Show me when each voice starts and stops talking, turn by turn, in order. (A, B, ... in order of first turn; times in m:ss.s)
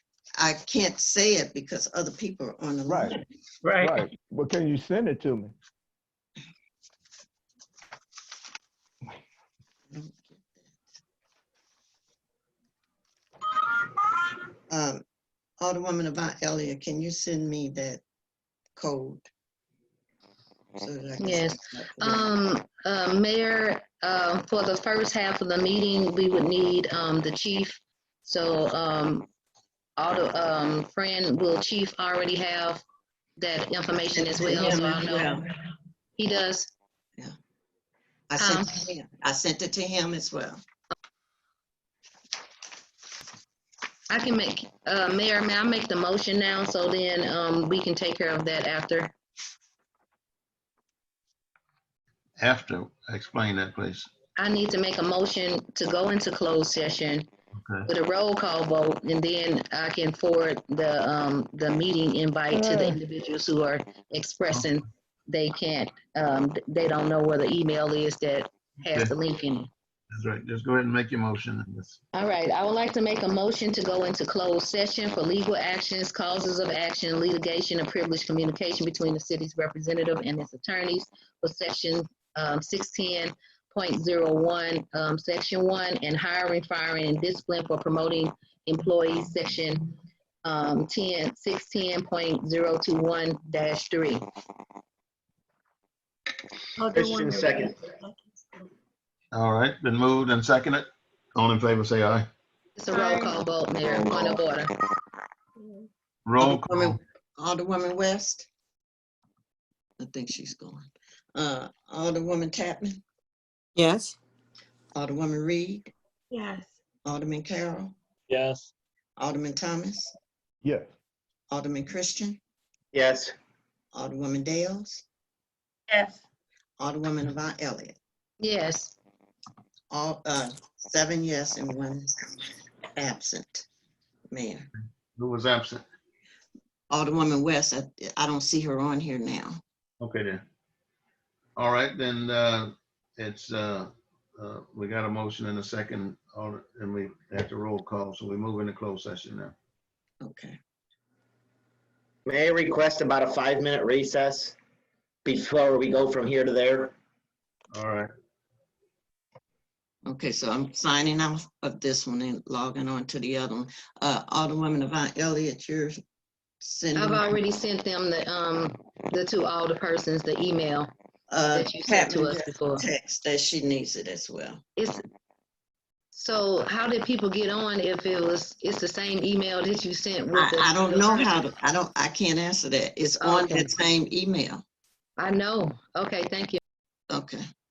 0:00.4-0:03.2 A
0:02.9-0:03.2 B
0:03.8-0:05.6 B
0:09.9-0:10.7 A
0:14.7-0:15.0 A
0:15.6-0:18.0 A
0:18.8-0:19.3 A
0:20.8-0:22.3 A
0:21.2-0:29.3 C
0:30.0-0:32.8 C
0:33.4-0:35.4 C
0:34.1-0:35.5 A
0:36.2-0:36.7 C
0:38.3-0:40.6 A
0:38.4-0:38.8 C
0:44.1-0:49.2 C
0:52.4-0:54.1 D
0:54.4-0:57.3 C
0:57.6-0:57.9 D
0:57.9-1:09.7 C
1:02.6-1:02.9 B
1:10.1-1:12.0 D
1:12.1-1:34.2 C
1:36.8-1:38.7 E
1:36.9-1:37.7 F
1:39.3-1:42.3 D
1:42.8-1:44.7 C
1:42.9-1:43.4 E
1:45.6-1:45.9 E
1:46.3-1:47.0 D
1:46.4-1:48.5 A
1:50.0-1:53.0 A
1:54.9-1:55.9 A
1:56.3-1:56.7 E
1:57.0-1:58.0 A
1:59.2-2:00.1 A
2:00.6-2:00.9 B
2:01.5-2:02.4 A
2:02.9-2:03.3 F
2:03.9-2:05.0 A
2:06.8-2:08.0 A
2:08.4-2:08.9 C
2:09.9-2:12.3 A
2:12.9-2:13.7 A
2:14.3-2:14.7 A
2:15.2-2:15.8 D
2:16.9-2:19.6 A
2:20.0-2:20.4 D
2:21.6-2:29.6 D
2:30.2-2:30.6 A
2:32.3-2:34.6 F
2:35.2-2:36.9 F
2:37.7-2:38.1 D
2:40.1-2:46.0 A
2:46.6-2:47.4 A
2:47.0-2:50.9 C
2:51.3-2:54.6 A
2:51.5-2:52.8 C
2:54.8-2:55.0 C
2:56.1-3:01.3 C
3:00.3-3:04.6 A
3:03.2-3:03.7 C
3:05.2-3:06.6 C
3:07.1-3:07.4 A